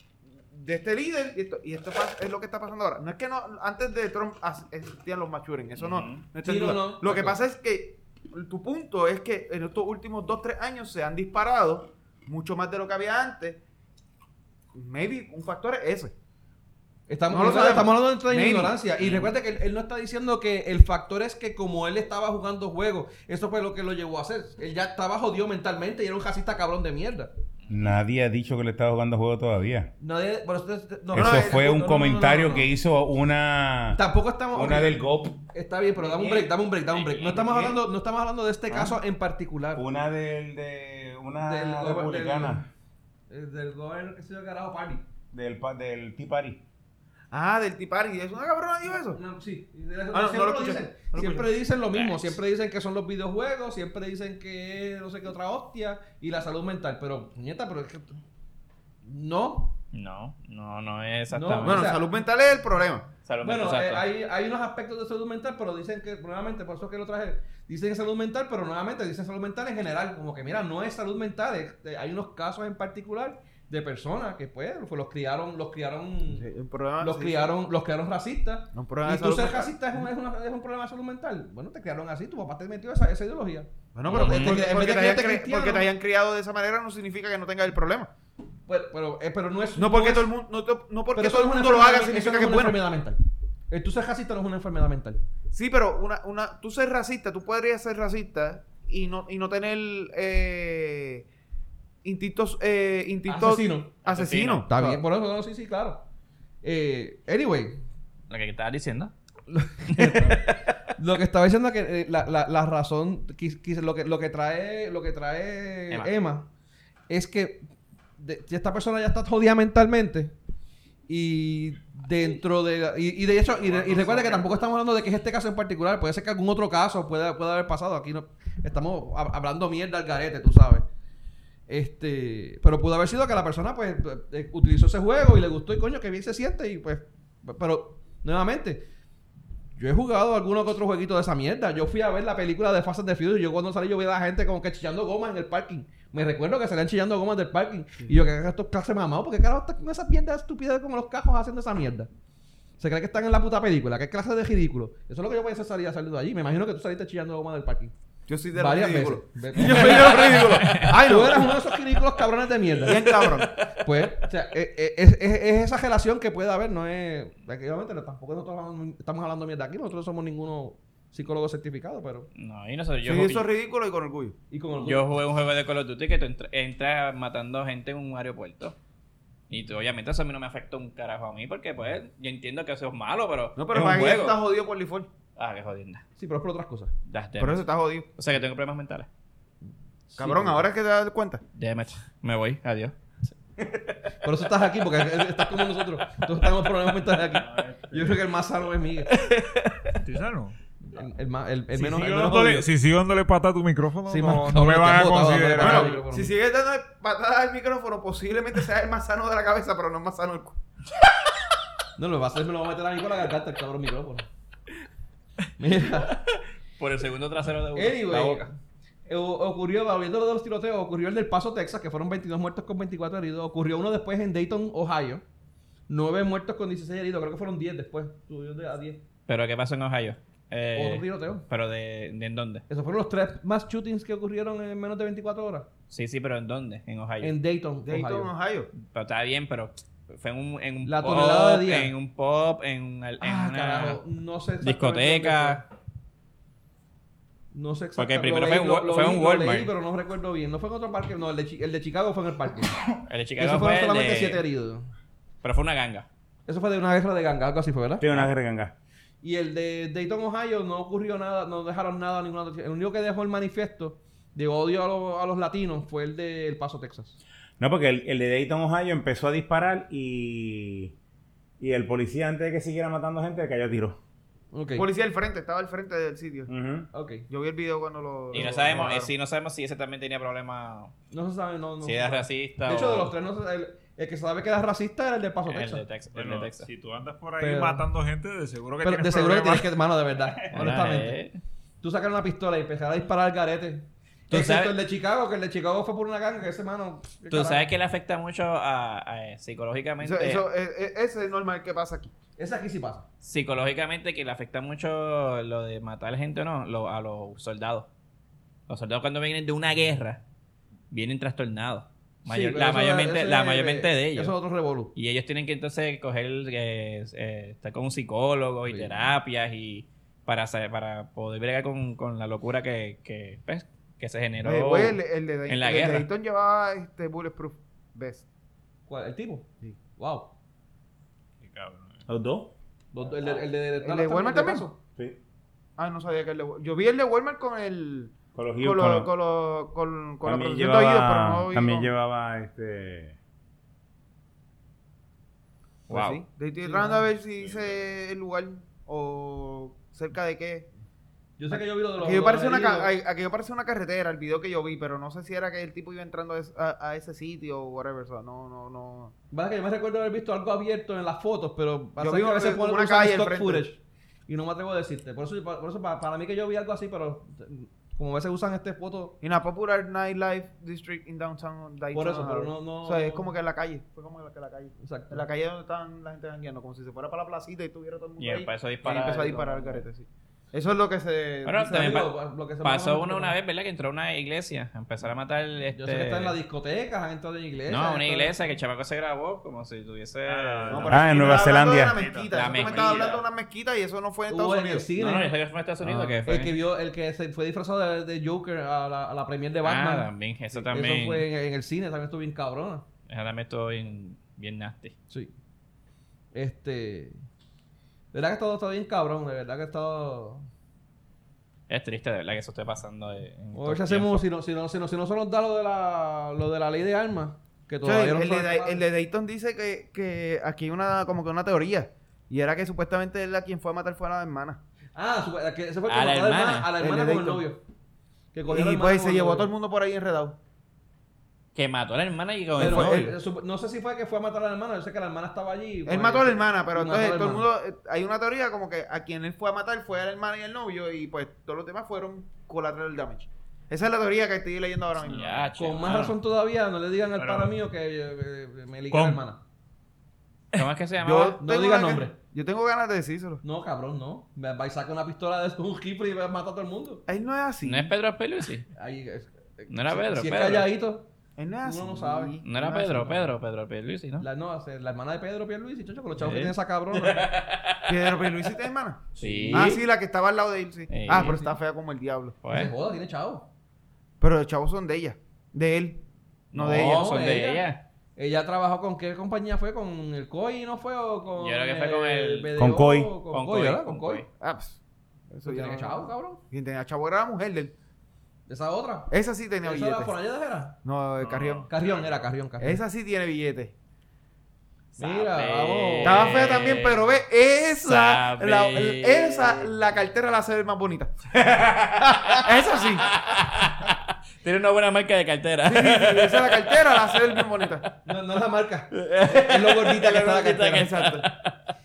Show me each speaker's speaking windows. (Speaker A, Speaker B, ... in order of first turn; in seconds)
Speaker A: 0.5-13.6, 14.7-16.1, 17.3-18.8, 31.1-31.6, 47.3-49.2, 50.1-51.5, 61.6-63.1, 76.3-77.5, 78.7-79.8, 84.0-88.1, 89.8-92.8, 95.5-101.2, 102.0-105.0, 158.3-161.6, 162.8-163.7, 173.1-174.3, 183.6-185.1, 187.4-188.1, 190.2-191.4, 205.6-210.6, 237.9-238.7, 274.8-276.5, 277.3-279.1, 300.0-302.1, 324.4-328.2, 333.8-334.7, 335.8-341.9, 345.9-350.7, 351.5-359.1, 362.0-363.6, 369.2-381.8, 390.7-394.9, 417.8-424.6, 426.8-427.4, 428.5-430.4, 432.6-433.1, 435.9-445.2, 451.0-453.4, 457.1-457.9, 461.4-462.4, 467.9-472.4, 474.2-477.1, 484.4-484.8, 485.3-487.7, 489.1-490.1, 490.9-491.7, 492.6-493.7, 496.0-501.7, 502.2-503.1, 505.7-507.9, 510.0-511.3
Speaker B: 5.8-6.2, 19.0-19.3, 36.9-37.4, 51.9-52.4, 59.9-62.0, 63.3-64.1, 84.2-84.6, 104.0-104.7, 108.3-109.1, 109.8-110.6, 160.6-160.9, 172.3-173.5, 174.8-178.8, 179.5-184.4, 185.4-186.0, 187.1-189.1, 191.6-192.9, 199.2-200.0, 216.1-218.4, 229.3-232.6, 235.9-237.3, 238.7-244.0, 244.6-245.6, 248.0-249.7, 253.1-254.4, 255.4-256.1, 278.3-280.9, 281.8-283.1, 285.5-286.7, 290.5-291.4, 294.3-294.8, 297.3-300.4, 303.2-307.9, 308.7-310.2, 310.9-314.3, 314.9-326.1, 345.9-346.2, 378.2-379.8, 381.4-386.4, 387.7-391.0, 392.3-393.2, 395.0-396.6, 399.6-401.3, 403.1-404.9, 411.7-414.3, 425.9-426.7, 431.6-433.1, 445.1-446.1, 450.5-451.4, 457.6-458.7, 459.7-460.7, 462.4-464.3, 466.2-468.3, 469.1-469.8, 470.9-471.4, 472.4-472.7, 476.5-477.8, 481.4-482.5, 483.3-484.3, 495.0-497.0, 497.8-499.7, 503.0-507.1, 508.9-511.6
Speaker C: 6.4-7.4, 17.1-27.3, 30.0-32.7, 34.0-39.8, 41.4-42.6, 43.3-45.0, 49.1-58.2, 59.0-59.8, 61.3-62.0, 63.4-76.5, 77.0-85.9, 88.7-90.3, 91.1-95.2, 103.3-103.9, 104.7-106.0, 106.6-107.8, 109.5-116.5, 117.1-117.6, 118.2-120.3, 121.1-130.8, 131.7-138.8, 139.8-152.1, 152.8-157.9, 158.6-172.3, 174.5-175.1, 186.2-186.9, 190.1-190.6, 194.2-199.3, 200.9-202.7, 204.1-206.3, 212.0-214.3, 215.6-216.2, 217.8-218.5, 219.1-225.2, 225.9-229.0, 230.8-231.4, 232.7-235.7, 237.2-238.3, 240.8-241.9, 243.2-245.7, 247.5-252.8, 253.4-254.9, 256.5-258.1, 259.2-267.2, 274.5-274.9, 276.9-277.3, 281.1-285.8, 287.4-287.9, 288.8-291.2, 291.8-297.6, 302.4-303.1, 312.3-314.9, 318.7-319.0, 328.9-330.3, 332.9-334.7, 346.6-347.1, 351.4-352.9, 359.3-369.2, 371.9-373.3, 374.8-375.2, 381.6-383.4, 385.8-388.4, 394.3-395.3, 396.0-402.9, 406.3-407.2, 408.1-410.4, 413.6-418.8, 425.0-427.6, 428.3-429.5, 432.6-437.5, 445.6-449.4, 451.4-452.1, 453.4-457.0, 458.7-461.1, 461.6-463.3, 464.2-467.3, 469.2-469.8, 471.1-471.6, 472.5-473.5, 476.7-477.6, 478.2-484.2, 485.4-486.4, 488.5-490.8, 491.7-492.8, 495.0-496.6, 508.1-510.9
Speaker D: 27.7-29.9, 31.1-34.0, 34.5-35.4, 39.7-42.6, 45.3-46.6, 258.0-258.7, 267.6-270.9, 271.6-274.0, 276.5-276.9, 332.1-332.5, 338.4-339.1, 340.2-343.2, 390.9-392.0, 482.6-483.1
Speaker E: 123.7-124.4, 197.5-198.2, 200.0-200.6, 201.7-206.0, 286.1-289.8, 331.4-332.1, 347.4-347.8, 390.2-393.2, 445.1-446.1, 447.2-447.5, 448.9-449.2, 491.2-492.2